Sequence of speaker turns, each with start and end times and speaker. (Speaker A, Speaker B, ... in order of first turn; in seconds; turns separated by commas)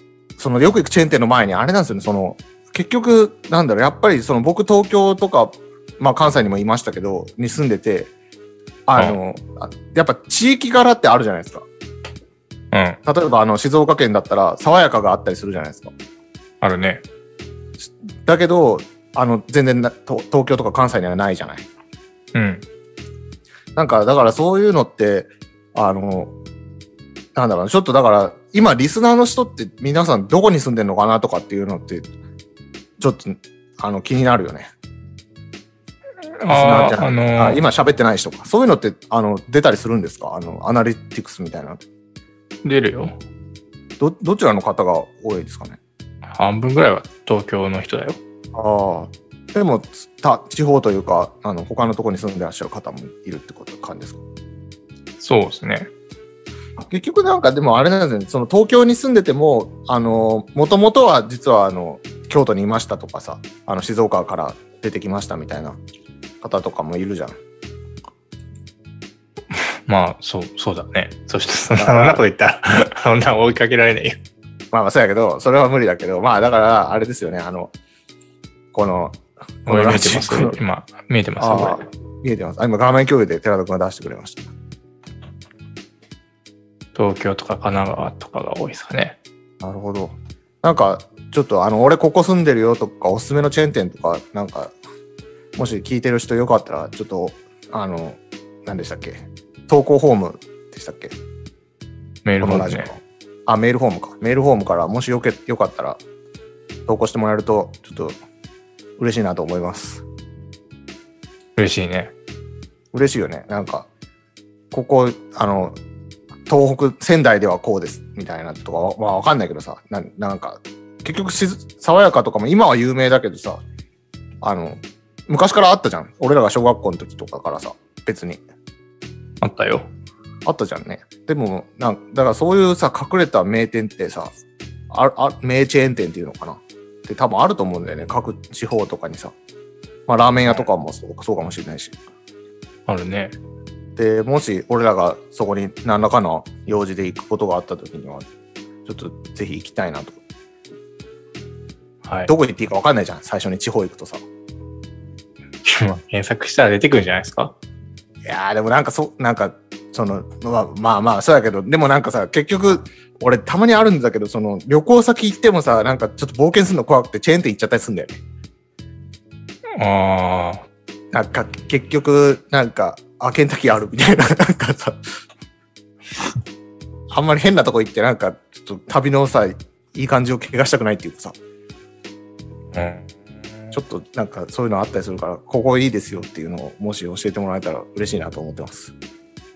Speaker A: 0.4-8.1, Speaker A: 8.9-11.7, Speaker B: 12.7-13.0, Speaker A: 13.1-15.9, Speaker B: 16.6-17.0, Speaker A: 18.2-21.7, Speaker B: 22.4-22.6, Speaker A: 23.8-26.3, Speaker A: 27.4-32.0, Speaker A: 33.0-34.7, Speaker B: 36.4-37.6, Speaker A: 36.5-41.8, Speaker B: 42.6-43.1, Speaker A: 44.0-45.8, Speaker B: 46.3-48.2, Speaker A: 48.5-54.2, Speaker B: 55.2-55.9, Speaker A: 56.9-65.8, Speaker A: 66.4-67.4, Speaker B: 69.6-74.2, Speaker A: 71.8-72.2, Speaker A: 74.7-77.7, Speaker A: 78.7-80.6, Speaker B: 79.7-81.8, Speaker A: 81.4-84.5, Speaker B: 87.0-89.2, Speaker A: 89.6-94.7, Speaker A: 95.6-101.2, Speaker B: 102.2-102.9, Speaker A: 102.4-106.0, Speaker A: 106.9-108.2, Speaker A: 109.0-110.0, Speaker B: 111.6-112.1, Speaker A: 112.9-113.9, Speaker A: 114.7-115.8, Speaker A: 116.5-123.6, Speaker A: 124.4-128.4, Speaker B: 129.4-129.9, Speaker A: 130.4-134.3, Speaker A: 134.9-139.3, Speaker A: 140.1-142.0, Speaker B: 142.9-143.3, Speaker A: 144.0-148.3, Speaker A: 148.9-150.2, Speaker B: 152.1-152.3, Speaker A: 152.3-154.2, Speaker B: 155.6-157.5, Speaker A: 158.3-168.2, Speaker B: 169.8-170.7, Speaker A: 171.1-175.0, Speaker A: 177.1-181.3, Speaker B: 182.7-183.1, Speaker A: 183.7-188.9